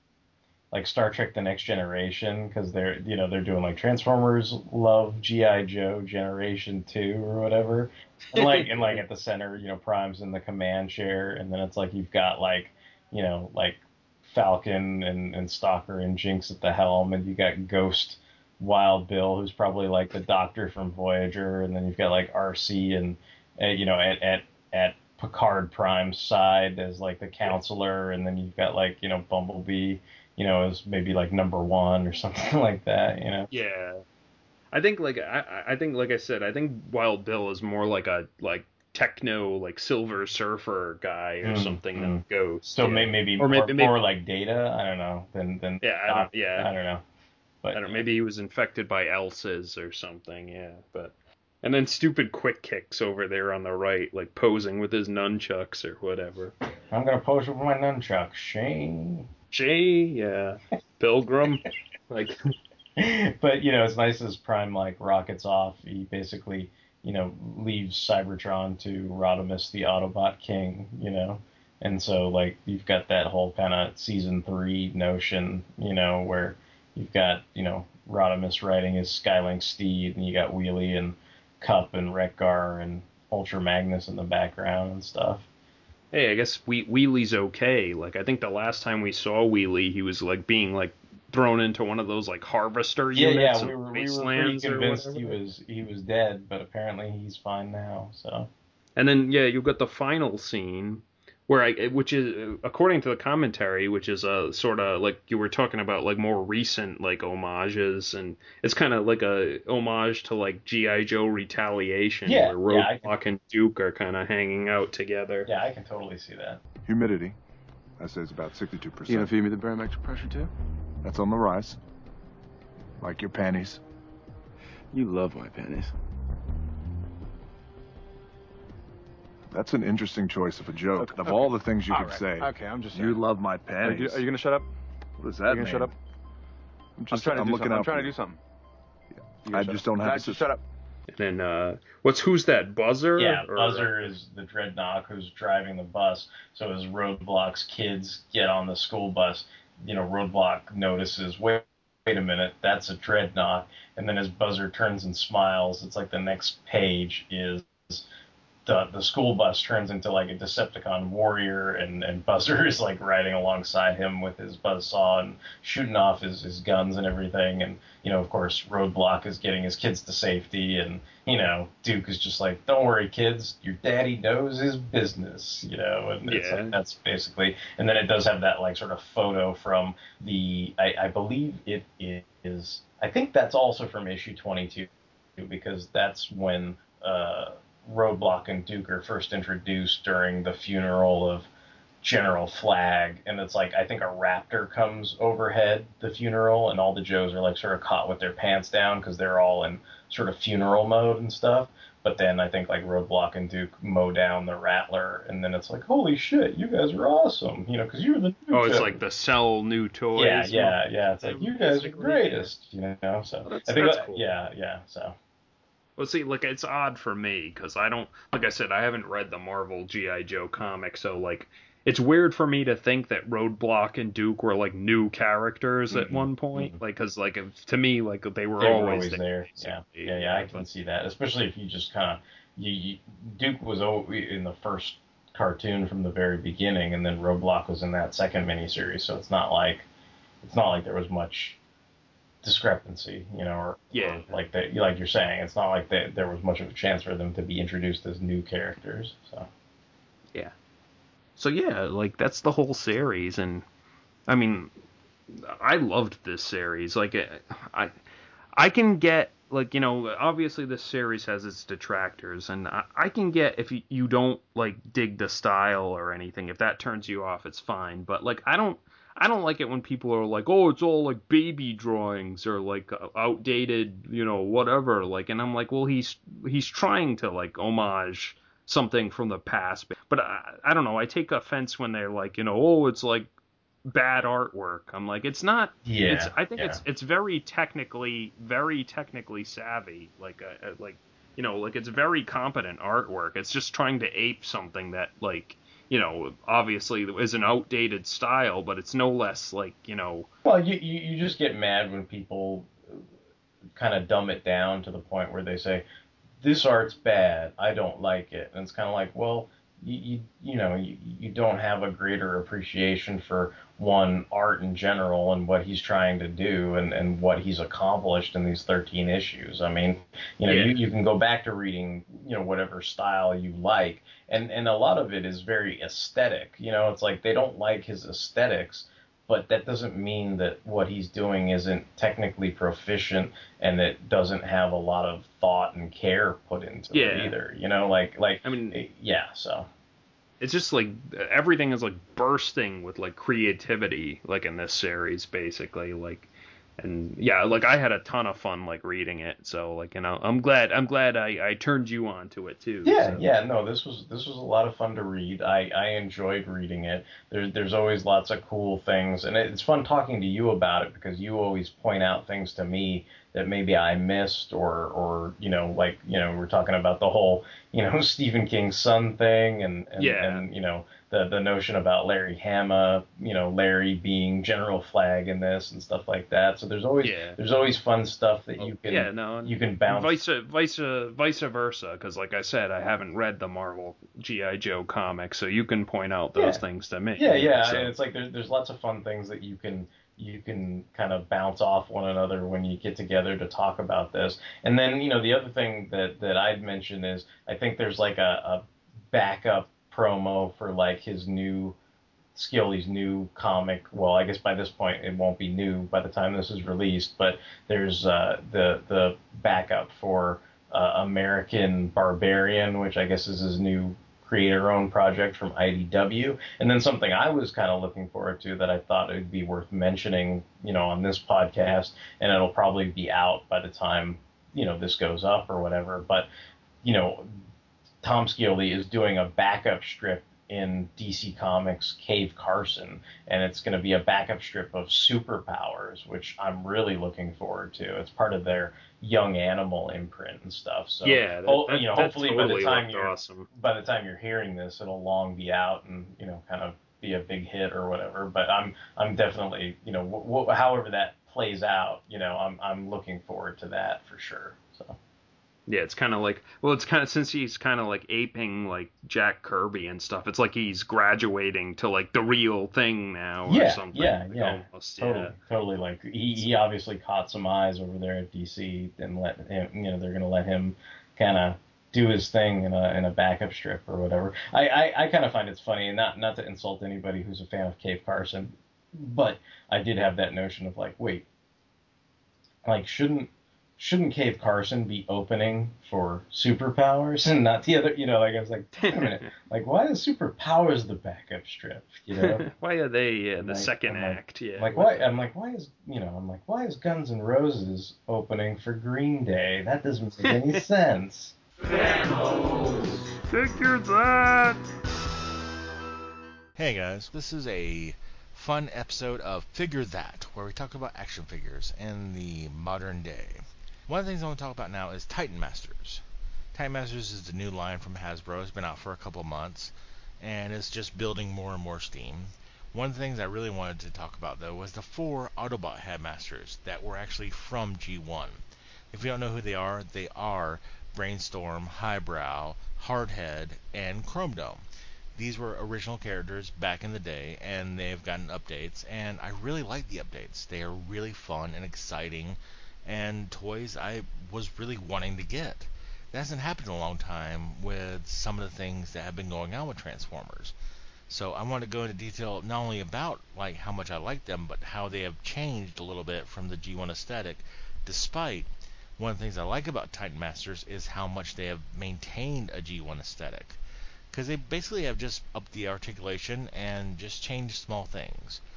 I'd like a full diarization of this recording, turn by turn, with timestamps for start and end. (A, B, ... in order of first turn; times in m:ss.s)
0:00.7-0:33.5 A
0:08.3-0:09.0 B
0:33.5-0:34.0 B
0:34.7-0:44.0 B
0:41.4-0:47.0 A
0:45.8-0:46.7 B
0:47.6-0:48.0 A
0:47.7-0:56.5 B
0:56.9-0:59.3 A
0:59.5-1:02.5 B
1:03.0-1:25.4 A
1:26.1-1:35.4 B
1:33.1-1:38.5 A
1:39.0-1:55.5 B
1:52.2-1:53.1 A
1:55.4-1:56.6 A
1:56.8-1:57.4 C
1:58.0-1:59.3 C
1:59.0-2:00.5 D
2:01.0-2:01.8 C
2:03.0-2:03.8 C
2:04.9-2:05.9 D
2:09.5-2:14.2 C
2:11.0-2:14.7 D
2:15.2-2:15.9 C
2:15.3-2:15.9 D
2:17.0-2:18.1 C
2:17.1-2:18.4 D
2:19.4-2:20.6 D
2:19.4-2:20.6 C
2:21.1-2:24.0 B
2:23.2-2:38.0 A
2:38.6-3:11.5 A
2:56.2-2:56.8 B
3:12.0-3:29.0 A
3:28.5-3:32.5 B
3:30.1-3:35.1 A
3:33.4-3:34.3 B
3:36.0-3:50.6 B
3:45.9-3:46.8 A
3:48.6-3:59.8 A
4:00.4-4:01.6 A
4:02.4-4:09.5 A
4:03.9-4:04.4 B
4:11.4-4:13.6 B
4:14.3-4:14.7 B
4:15.3-4:17.9 B
4:18.6-4:43.3 B
4:43.8-5:00.3 B
4:45.8-4:46.8 A
5:00.4-5:03.0 A
5:03.7-5:05.8 A
5:06.4-5:39.7 A
5:20.4-5:20.8 B
5:36.9-5:37.4 B
5:38.4-5:38.8 B
5:40.4-5:53.2 B
5:52.8-6:20.2 A
6:10.0-6:10.4 B
6:17.0-6:17.4 B
6:18.6-6:27.9 B
6:26.4-6:26.6 A
6:27.2-6:41.8 A
6:42.3-7:06.3 A
7:06.8-7:07.3 A
7:08.0-7:35.0 A
7:21.0-7:23.5 B
7:35.7-7:45.4 B
7:43.4-8:01.2 A
8:02.6-8:12.4 A
8:08.8-8:09.3 B
8:12.2-8:15.1 B
8:13.4-8:21.4 A
8:20.2-8:20.6 B
8:23.3-8:24.6 B
8:26.6-8:36.0 E
8:36.5-8:54.6 E
8:55.2-9:10.5 E
9:11.1-9:23.6 E
9:24.1-9:28.4 E